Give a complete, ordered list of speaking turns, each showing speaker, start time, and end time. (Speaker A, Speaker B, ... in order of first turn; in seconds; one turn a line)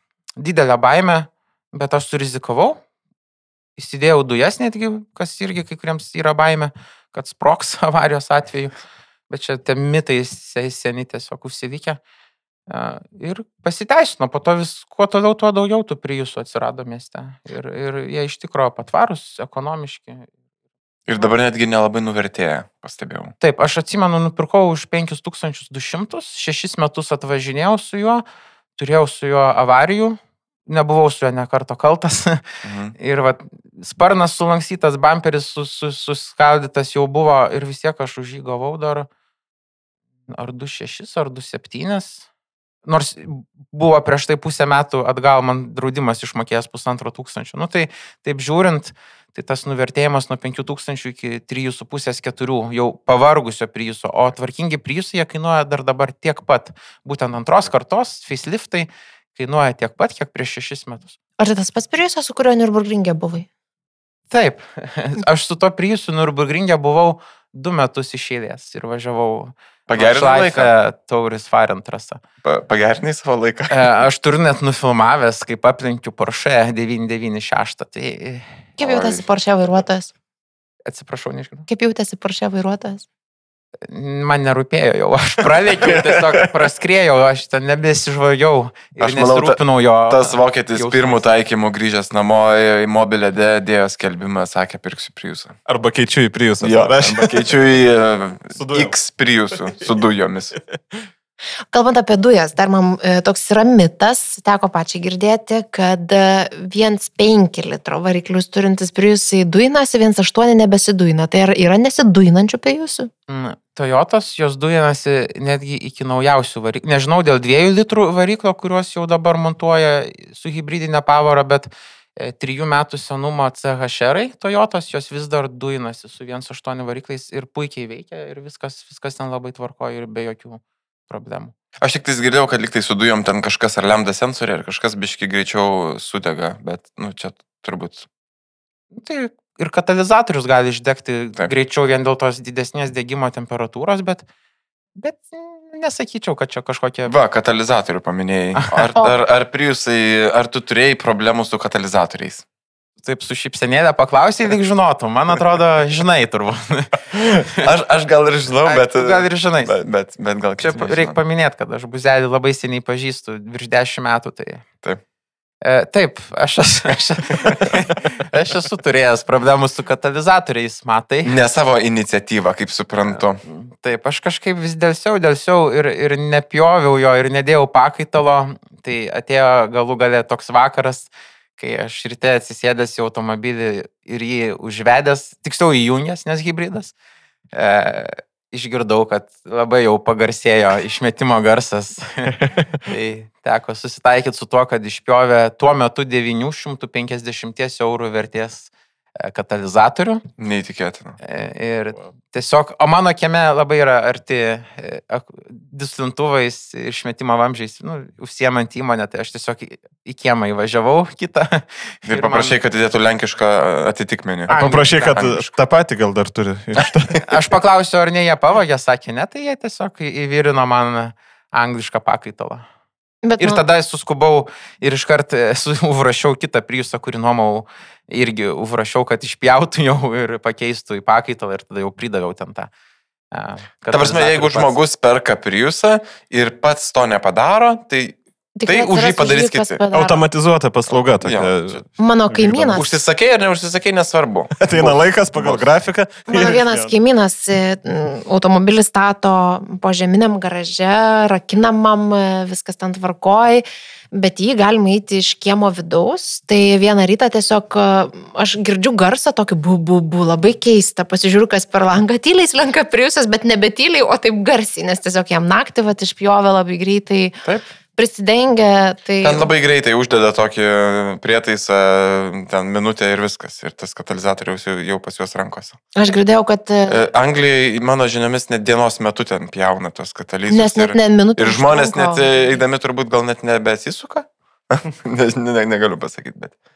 Speaker A: 0.4-2.8
Speaker A: 3.8-8.7
Speaker A: 9.3-12.0
Speaker A: 12.7-20.3
Speaker B: 21.1-23.3
Speaker A: 23.4-28.2
Speaker A: 28.8-32.4
Speaker B: 32.6-32.9
Speaker A: 33.0-39.1
Speaker A: 40.3-42.2
Speaker A: 42.8-61.1
Speaker C: 61.4-63.5
Speaker A: 64.3-72.2
Speaker B: 69.9-70.7
Speaker B: 72.4-73.9
Speaker A: 73.7-78.5
Speaker C: 78.8-80.1
Speaker B: 78.8-79.3
Speaker A: 80.9-81.7
Speaker C: 81.7-83.0
Speaker A: 83.9-91.2
Speaker B: 89.0-95.6
Speaker D: 95.7-97.3
Speaker B: 96.6-100.5
Speaker D: 98.5-98.9
Speaker D: 100.7-101.0
Speaker C: 101.7-113.1
Speaker A: 113.3-131.5
Speaker B: 131.8-138.1
Speaker A: 138.9-144.2
Speaker A: 144.9-147.1
Speaker B: 147.1-152.4
Speaker A: 153.0-157.7
Speaker B: 157.6-161.2
Speaker A: 158.7-159.7
Speaker A: 160.6-164.6
Speaker A: 165.6-171.3
Speaker B: 171.2-173.4
Speaker A: 173.1-186.9
Speaker A: 187.5-200.2
Speaker B: 200.4-201.2
Speaker A: 201.2-212.6
Speaker B: 212.1-215.5
Speaker A: 214.5-215.2
Speaker D: 214.5-217.2
Speaker A: 217.3-222.6
Speaker C: 223.2-223.6
Speaker A: 223.4-232.7
Speaker A: 233.3-234.8
Speaker B: 233.9-239.8
Speaker C: 238.6-240.2
Speaker D: 239.9-242.8
Speaker B: 240.9-241.8
Speaker C: 242.0-243.0
Speaker B: 242.7-245.7
Speaker D: 244.6-246.9
Speaker C: 246.3-267.4
Speaker C: 268.0-269.5
Speaker B: 269.2-275.8
Speaker C: 275.9-277.1
Speaker B: 276.9-286.5
Speaker C: 280.5-282.4